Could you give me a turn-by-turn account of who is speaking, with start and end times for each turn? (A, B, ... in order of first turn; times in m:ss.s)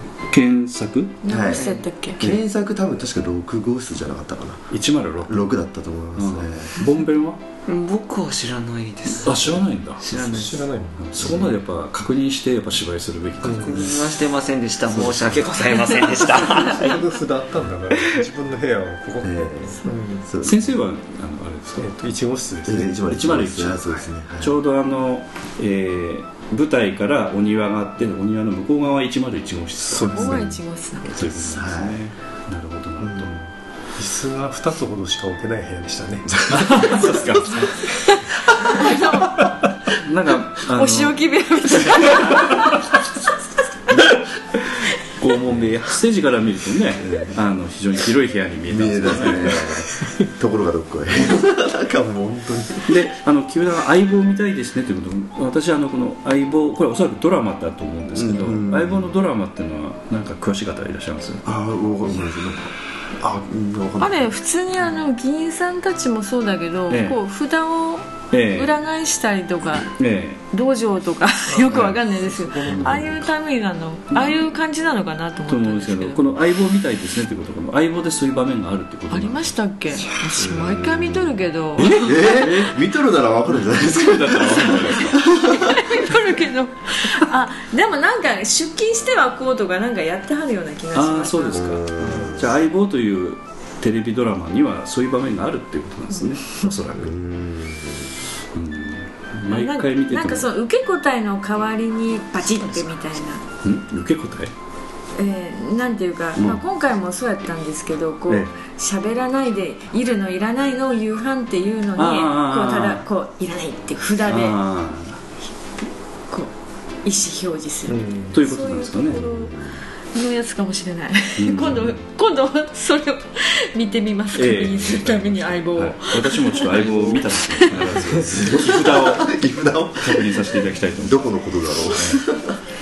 0:00.3-0:01.2 A
0:01.2-0:02.2 B
0:01.3-0:04.7 C
0:01.5-0:01.8 D
0:04.7-0:05.4 A
0:05.3-0:06.8 C
0:06.2-0:07.4 A
0:07.7-0:10.6 D
0:09.2-0:10.1 A
0:10.1-0:11.2 E
0:11.0-0:14.0 A
0:11.2-0:11.5 C
0:13.4-0:13.9 E
0:13.5-0:17.1 D
0:16.8-0:20.3 E
0:19.2-0:20.7 C
0:20.4-0:21.9 A
0:21.8-0:23.0 E
0:22.6-0:24.6 C
0:23.1-0:30.4 A
0:29.9-0:30.5 E
0:30.0-0:31.2 B
0:31.1-0:33.4 A
0:31.4-0:32.0 C
0:33.0-0:33.3 C
0:34.0-0:37.2 E
0:36.5-0:37.9 A
0:38.6-0:39.4 B
0:39.9-0:41.2 A
0:40.6-0:42.9 B
0:41.8-0:42.1 A
0:45.2-0:49.8 A
0:48.7-0:53.0 C
0:52.9-1:01.4 A
0:58.1-0:59.1 C
1:01.4-1:04.2 C
1:04.0-1:09.9 B
1:06.9-1:07.2 A
1:08.3-1:08.7 A
1:10.0-1:10.4 A
1:10.5-1:16.3 B
1:11.5-1:13.1 E
1:12.7-1:13.1 C
1:12.7-1:13.0 A
1:15.5-1:19.5 A
1:19.1-1:22.1 B
1:20.3-1:25.9 C
1:21.8-1:22.9 A
1:23.6-1:25.2 A
1:25.3-1:31.7 B
1:31.0-1:37.2 A
1:31.5-1:32.5 C
1:36.1-1:36.7 B
1:36.9-1:38.1 C
1:38.5-1:40.5 A
1:39.5-1:43.4 B
1:43.6-1:44.5 A
1:45.2-1:54.6 B
1:46.4-1:46.6 A
1:52.0-1:53.0 A
1:54.3-1:55.2 A
1:57.0-1:59.6 B
1:57.9-1:58.4 E
1:58.3-1:59.2 A
1:59.3-1:59.8 C
2:00.1-2:07.7 B
2:01.4-2:02.0 A
2:04.4-2:11.4 A
2:08.0-2:12.4 C
2:11.9-2:12.2 A